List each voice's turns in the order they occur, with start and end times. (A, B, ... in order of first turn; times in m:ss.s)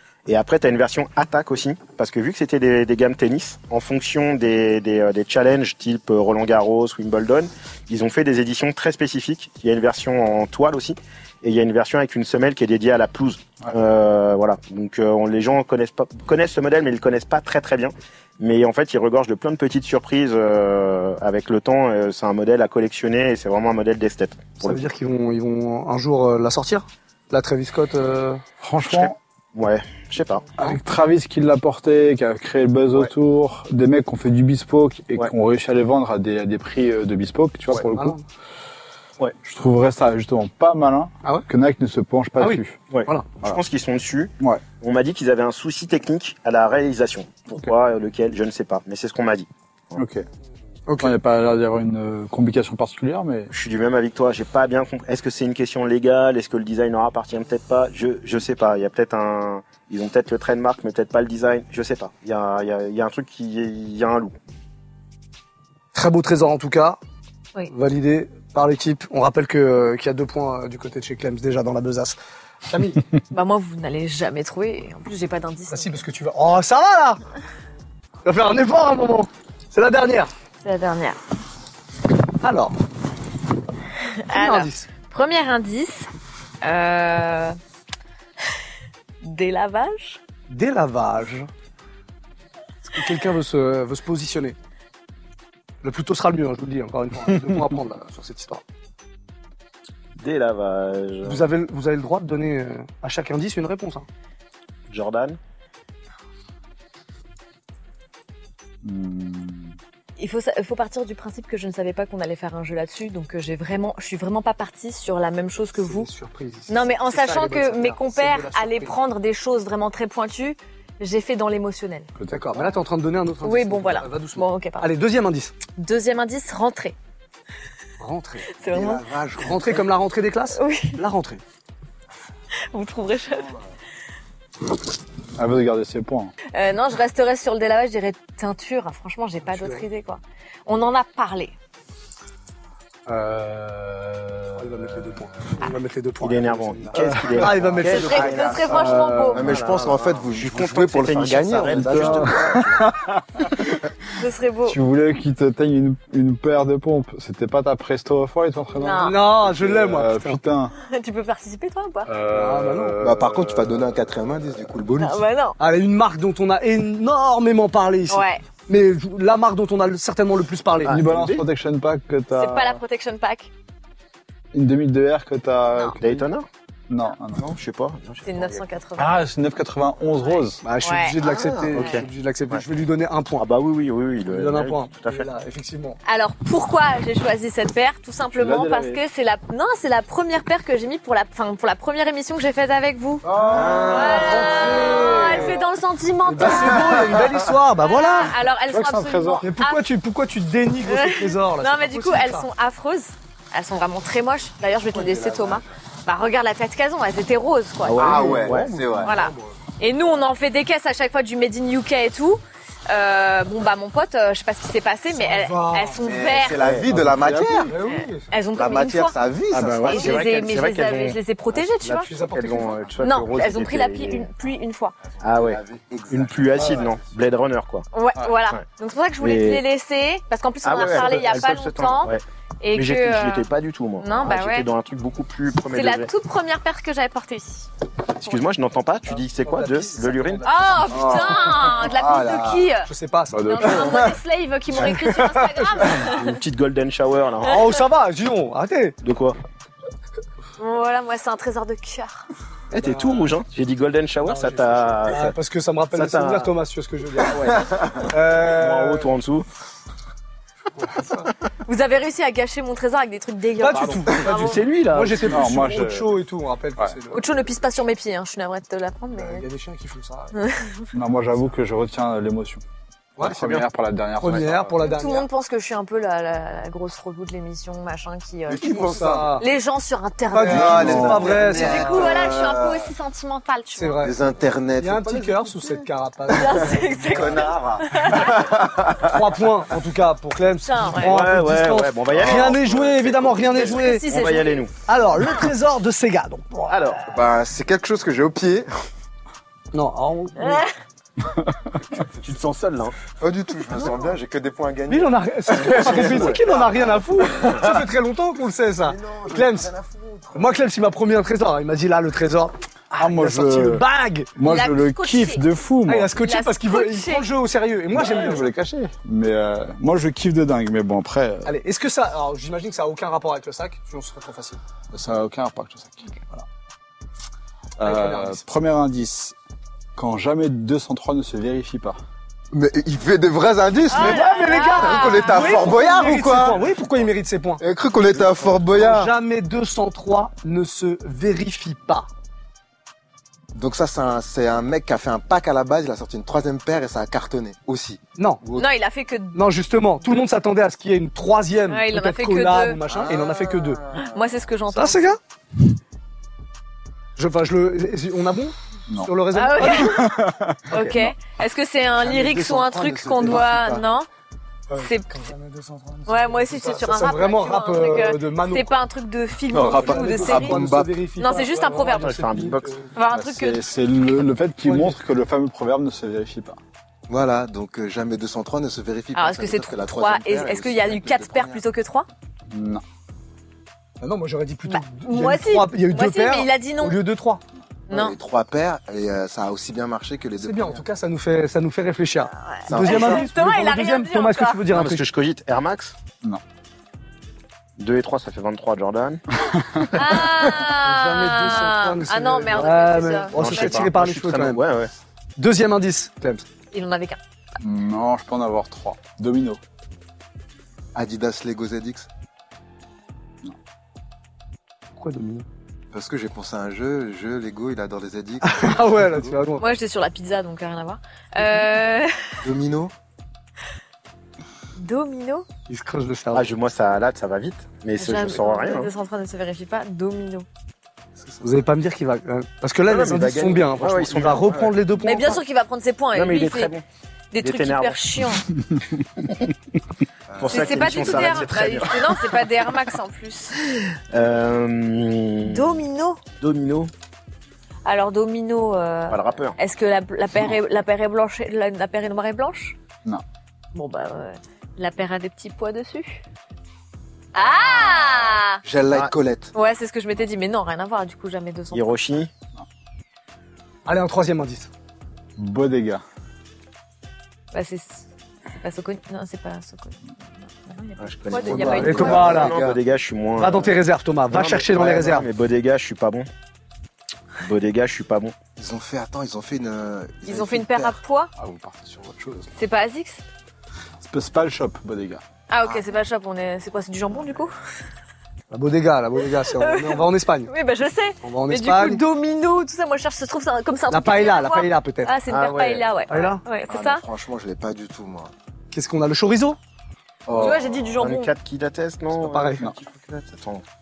0:00.3-0:24.9 A
0:24.6-0:28.4 B
0:28.6-0:29.2 C
0:28.9-0:30.5 A
0:30.6-0:38.2 C
0:37.9-0:38.2 B
0:39.4-0:42.8 C
0:42.4-0:43.3 B
0:42.9-0:50.0 A
0:50.0-0:50.2 C
0:50.9-0:51.1 B
0:51.0-0:53.5 C
0:53.5-1:04.3 A
1:05.9-1:07.0 B
1:07.7-1:13.0 B
1:13.3-1:16.0 D
1:15.7-1:17.2 B
1:18.2-1:20.3 B
1:20.6-1:21.2 D
1:22.4-1:22.7 B
1:24.1-1:26.1 D
1:24.3-1:24.9 B
1:26.6-1:27.6 D
1:29.2-1:30.2 D
1:30.5-1:31.5 B
1:32.9-1:34.5 B
1:35.8-1:38.6 B
1:40.2-1:41.4 A
1:41.2-1:44.0 B
1:44.9-1:45.4 A
1:48.8-1:49.8 C
1:50.2-1:56.1 D
1:55.8-1:59.0 B
1:56.7-2:02.1 D
2:02.2-2:02.7 C
2:02.3-2:05.5 B
2:03.4-2:04.9 D
2:05.8-2:06.9 D
2:08.0-2:08.5 B
2:08.5-2:09.0 D
2:08.7-2:09.8 E
2:09.4-2:11.4 B
2:10.5-2:11.0 D
2:12.7-2:13.5 D
2:15.4-2:16.3 C
2:16.5-2:21.5 D
2:19.5-2:19.8 B
2:23.1-2:25.2 C
2:24.5-2:28.3 B
2:26.2-2:32.6 A
2:27.8-2:29.5 D
2:27.8-2:32.9 E
2:28.7-2:29.6 C
2:31.7-2:33.8 C
2:34.2-2:34.8 D
2:34.6-2:40.7 C
2:38.8-2:39.2 D
2:39.0-2:40.4 B
2:40.8-2:42.1 D
2:42.0-2:44.6 C
2:42.3-2:43.0 B
2:43.0-2:45.2 E
2:45.0-2:45.6 D
2:45.6-2:51.0 B
2:48.1-2:48.4 D
2:50.8-2:51.4 A
2:50.9-2:52.8 C
2:52.3-2:53.5 D
2:54.5-2:56.2 C
2:56.0-2:56.5 A
2:56.9-2:57.4 C
2:57.4-2:58.6 A
2:58.2-2:59.1 D
2:59.0-3:00.6 C
3:00.6-3:03.5 B
3:00.8-3:02.0 D
3:01.3-3:02.6 A
3:03.4-3:05.3 A
3:04.3-3:06.0 B
3:06.0-3:19.8 D
3:08.3-3:09.0 C
3:13.2-3:15.2 E
3:13.3-3:15.6 B
3:13.5-3:14.2 A
3:16.2-3:18.3 B
3:16.4-3:17.2 E
3:18.7-3:19.5 C
3:19.4-3:22.4 B
3:20.8-3:28.3 D
3:24.7-3:25.7 E
3:27.8-3:28.8 A
3:27.9-3:29.2 E
3:28.0-3:29.5 B
3:29.0-3:36.6 D
3:35.1-3:36.0 B
3:36.0-3:37.7 E
3:36.6-3:37.5 A
3:36.9-3:37.5 C
3:37.6-3:38.3 B
3:37.9-3:39.1 D
3:38.5-3:40.2 E
3:39.5-3:39.9 C
3:39.5-3:44.3 A
3:39.9-3:42.1 D
3:41.8-3:42.9 B
3:43.0-3:44.9 D
3:45.1-3:47.0 E
3:45.2-3:45.6 A
3:46.1-3:47.8 A
3:47.9-3:53.5 D
3:49.2-3:49.6 A
3:50.6-3:56.1 A
3:54.0-3:54.7 D
3:55.7-3:57.7 D
3:58.2-4:00.5 A
3:59.1-4:01.4 B
4:00.4-4:02.9 D
4:01.0-4:01.6 C
4:02.0-4:02.6 E
4:02.8-4:04.0 B
4:03.3-4:04.1 C
4:03.5-4:06.3 D
4:04.8-4:06.1 B
4:06.0-4:07.7 A
4:07.4-4:09.0 B
4:09.0-4:09.4 A
4:10.6-4:12.2 D
4:12.7-4:15.3 A
4:12.7-4:13.3 B
4:14.2-4:19.1 B
4:15.9-4:16.5 A
4:17.3-4:19.5 A
4:20.8-4:21.3 B
4:21.6-4:24.6 D
4:23.6-4:27.3 B
4:23.8-4:25.4 A
4:25.3-4:26.1 C
4:27.1-4:29.4 D
4:29.1-4:30.4 B
4:30.3-4:30.8 D
4:30.9-4:32.6 C
4:33.2-4:33.7 B
4:33.2-4:34.8 C
4:34.2-4:35.3 B
4:34.8-4:44.0 D
4:38.5-4:39.4 E
4:38.9-4:39.4 B
4:40.3-4:42.2 B
4:40.3-4:42.9 E
4:40.7-4:41.5 C
4:43.7-4:44.2 B
4:44.0-4:45.4 E
4:44.8-4:47.4 B
4:46.3-4:48.6 D
4:46.6-4:49.2 E
4:48.9-4:54.1 B
4:50.6-4:51.2 D
4:51.0-4:54.7 A
4:53.5-4:54.7 D
4:54.9-4:56.8 B
4:56.7-4:57.0 A
4:57.1-4:58.7 E
4:59.7-5:00.7 B
5:00.4-5:00.7 D
5:01.3-5:01.6 C
5:02.1-5:03.0 A
5:03.2-5:07.7 E
5:04.9-5:09.7 B
5:08.8-5:10.6 E
5:10.3-5:14.3 B
5:13.0-5:13.8 C
5:14.4-5:16.1 C
5:14.4-5:15.4 D
5:15.8-5:18.5 B
5:16.2-5:17.3 D
5:17.9-5:21.6 C
5:21.4-5:24.6 B
5:24.9-5:26.0 C
5:27.8-5:29.3 C
5:27.8-5:28.4 B
5:30.0-5:32.0 C
5:32.5-5:36.6 E
5:33.9-5:35.9 D
5:33.9-5:37.6 B
5:37.6-5:39.1 E
5:38.7-5:42.1 B
5:43.5-5:48.7 E
5:48.2-5:48.4 B
5:48.5-5:49.4 D
5:49.3-5:53.8 B
5:51.7-5:52.8 D
5:52.9-5:54.4 E
5:53.9-5:55.2 D
5:54.7-5:55.2 B
5:57.2-6:00.1 B
5:58.9-6:00.7 C
5:59.3-6:00.2 D
6:00.7-6:04.1 D
6:02.0-6:03.8 E
6:03.2-6:03.4 B
6:04.7-6:08.7 B
6:04.8-6:05.2 D
6:06.1-6:10.7 D
6:09.5-6:11.0 E
6:09.6-6:12.9 B
6:11.2-6:12.1 D
6:11.8-6:12.8 A
6:12.9-6:13.7 D
6:13.1-6:16.6 C
6:14.6-6:15.0 B
6:17.1-6:21.6 E
6:19.1-6:22.1 D
6:22.5-6:22.8 C
6:24.0-6:27.4 B
6:24.7-6:27.0 D
6:27.9-6:28.2 D
6:27.9-6:30.8 E
6:30.4-6:35.0 B
6:32.4-6:34.6 D
6:32.7-6:33.3 E
6:34.7-6:35.9 A
6:37.8-6:39.2 A
6:39.9-6:43.9 D
6:40.6-6:44.6 B
6:43.3-6:44.9 A
6:45.4-6:46.4 B
6:46.7-6:47.2 D
6:47.6-6:49.6 C
6:50.9-6:52.1 E
6:55.0-6:55.4 B
6:55.9-6:59.3 E
6:58.4-6:59.7 B
6:59.6-7:02.4 D
7:02.4-7:02.9 E
7:04.8-7:05.4 D
7:05.7-7:06.5 B
7:06.3-7:08.9 A
7:08.0-7:10.4 D
7:11.4-7:15.4 B
7:12.8-7:14.8 A
7:15.0-7:16.7 D
7:16.1-7:16.8 A
7:17.3-7:18.5 D
7:17.4-7:18.0 A
7:20.3-7:21.4 E
7:20.4-7:22.2 A
7:20.4-7:23.9 D
7:24.1-7:25.8 A
7:25.4-7:26.2 D
7:26.4-7:26.9 A
7:27.8-7:32.8 D
7:29.1-7:29.6 A
7:33.7-7:36.2 D
7:37.3-7:38.6 D
7:38.6-7:39.5 E
7:39.5-7:41.9 D
7:41.7-7:42.3 A
7:43.8-7:44.7 B
7:45.4-7:46.0 C
7:47.5-7:52.5 D
7:51.0-7:53.8 A
7:51.3-7:52.8 E
7:51.6-7:52.6 B
7:53.4-7:55.3 B
7:54.3-7:56.3 A
7:57.4-7:58.3 A
7:58.6-8:01.0 E
8:00.2-8:01.3 D
8:01.4-8:02.5 C
8:02.6-8:03.2 D
8:04.0-8:05.2 C
8:05.5-8:07.5 D
8:08.5-8:10.5 B
8:09.4-8:17.0 D
8:11.2-8:12.0 B
8:13.9-8:15.1 B
8:15.3-8:15.8 A
8:16.1-8:16.4 B
8:16.7-8:18.3 E
8:18.7-8:19.6 B
8:20.3-8:20.9 E
8:20.3-8:21.3 D
8:20.4-8:23.6 A
8:22.2-8:22.6 B